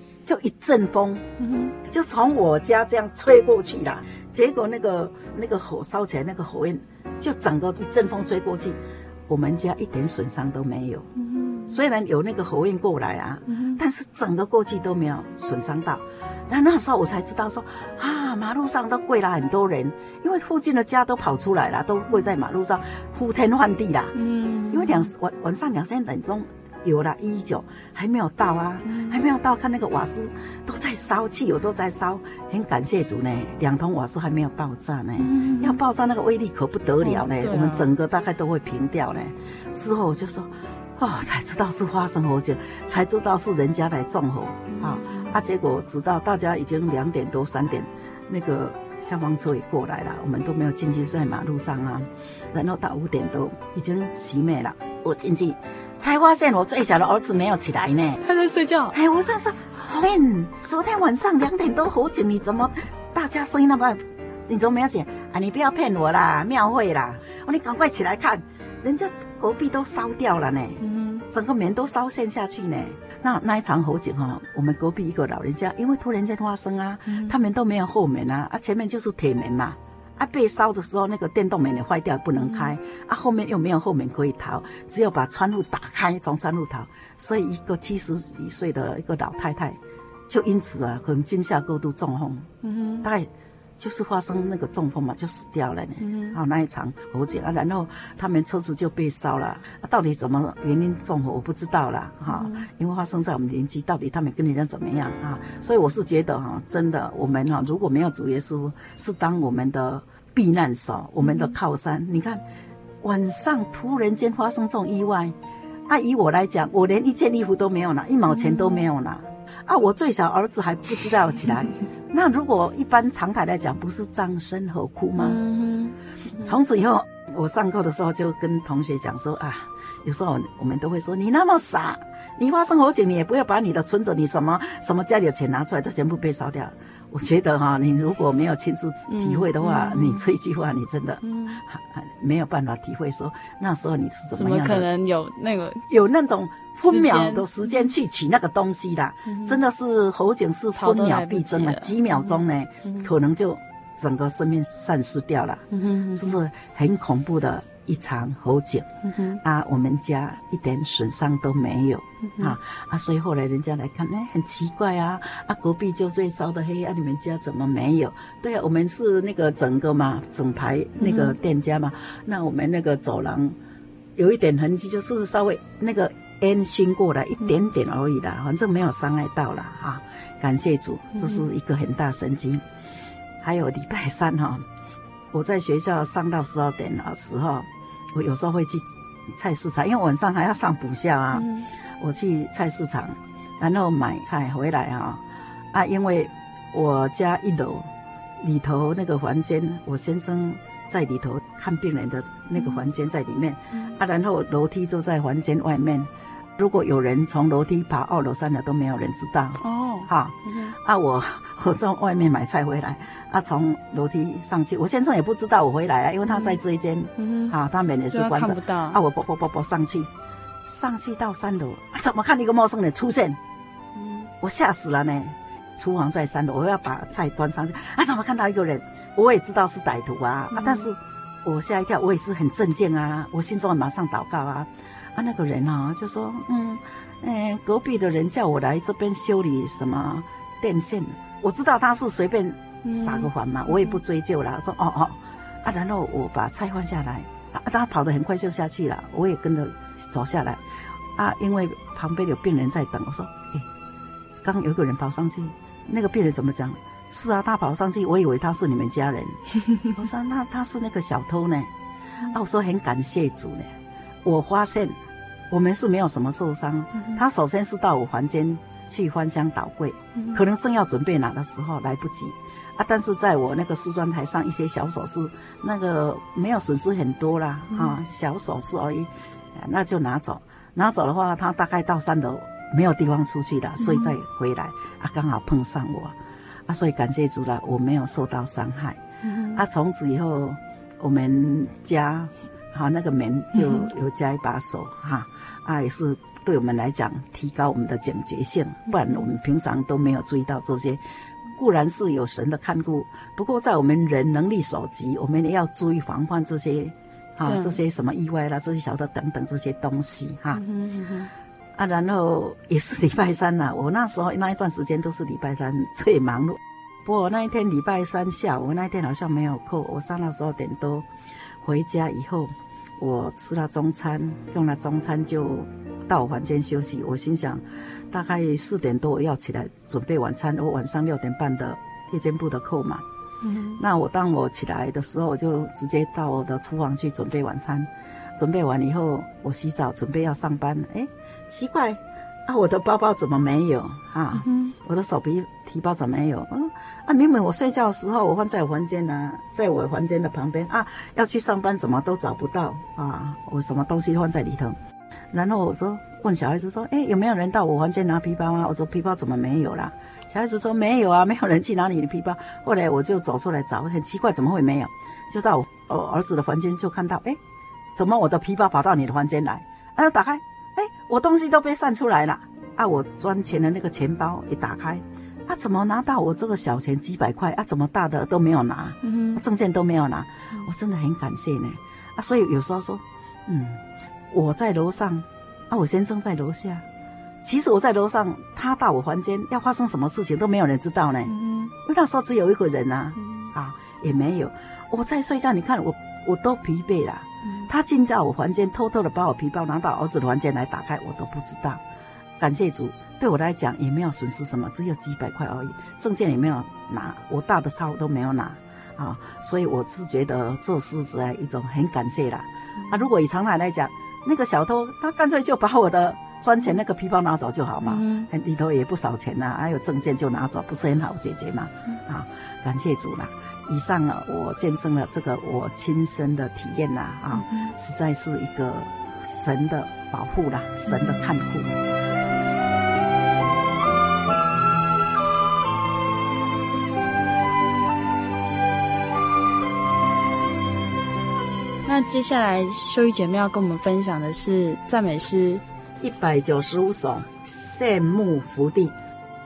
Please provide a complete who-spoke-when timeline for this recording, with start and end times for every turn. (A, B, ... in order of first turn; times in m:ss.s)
0:00.2-0:01.3 A
0:01.4-0:01.8 B
0:01.8-0:11.1 A
0:11.2-0:11.8 B
0:11.7-0:24.2 A
0:13.5-0:13.8 B
0:24.1-0:25.1 B
0:24.7-0:58.2 A
0:28.8-0:29.2 B
0:35.2-0:35.8 B
0:37.0-0:37.9 B
0:44.7-0:45.3 B
0:58.2-0:59.0 B
0:58.9-1:52.4 A
1:10.8-1:11.2 B
1:17.1-1:17.4 B
1:22.4-1:22.7 B
1:32.6-1:33.1 B
1:36.0-1:36.4 B
1:42.3-1:42.7 B
1:51.2-1:51.5 B
1:53.0-1:55.4 A
1:55.9-2:05.4 A
1:58.3-1:58.8 B
2:05.2-2:05.9 B
2:06.4-2:24.9 A
2:19.1-2:20.3 B
2:21.2-2:21.6 B
2:24.3-2:25.8 B
2:25.9-2:53.6 A
2:26.8-2:27.9 B
2:29.2-2:29.6 B
2:30.8-2:33.1 B
2:35.7-2:36.4 B
2:39.0-2:39.4 B
2:42.2-2:42.6 B
2:51.0-2:51.4 B
2:54.2-3:02.6 A
3:01.1-3:01.5 B
3:03.4-3:04.6 A
3:05.3-3:11.5 A
3:11.3-3:11.7 B
3:12.0-3:15.2 A
3:15.7-3:40.1 A
3:29.6-3:30.8 B
3:36.2-3:36.6 B
3:37.2-3:37.6 B
3:38.1-3:39.0 B
3:40.6-3:43.4 A
3:43.9-3:44.3 B
3:44.4-4:10.6 A
3:50.5-3:50.9 B
4:02.8-4:04.0 B
4:11.2-4:13.7 A
4:14.4-4:21.7 A
4:22.3-4:23.7 A
4:24.2-4:25.0 A
4:25.5-4:46.2 A
4:26.9-4:27.2 B
4:30.1-4:30.4 B
4:37.7-4:38.0 B
4:43.8-4:44.1 B
4:46.7-4:49.0 A
4:49.2-4:49.6 B
4:49.5-5:01.0 A
4:53.6-4:53.9 B
4:58.9-4:59.3 B
5:01.5-5:10.6 A
5:07.4-5:07.8 B
5:10.5-5:11.3 B
5:11.8-5:21.1 A
5:21.6-5:33.0 A
5:33.4-5:33.8 B
5:33.8-5:54.8 A
5:44.3-5:44.7 B
5:55.3-6:07.4 A
6:07.9-6:26.8 A
6:19.0-6:19.4 B
6:27.4-6:41.8 A
6:31.2-6:31.7 B
6:33.2-6:33.5 B
6:37.4-6:37.7 B
6:42.4-7:11.8 A
6:57.8-6:58.3 B
7:07.3-7:07.7 B
7:10.9-7:11.2 B
7:21.8-7:25.6 B
7:26.0-7:28.9 A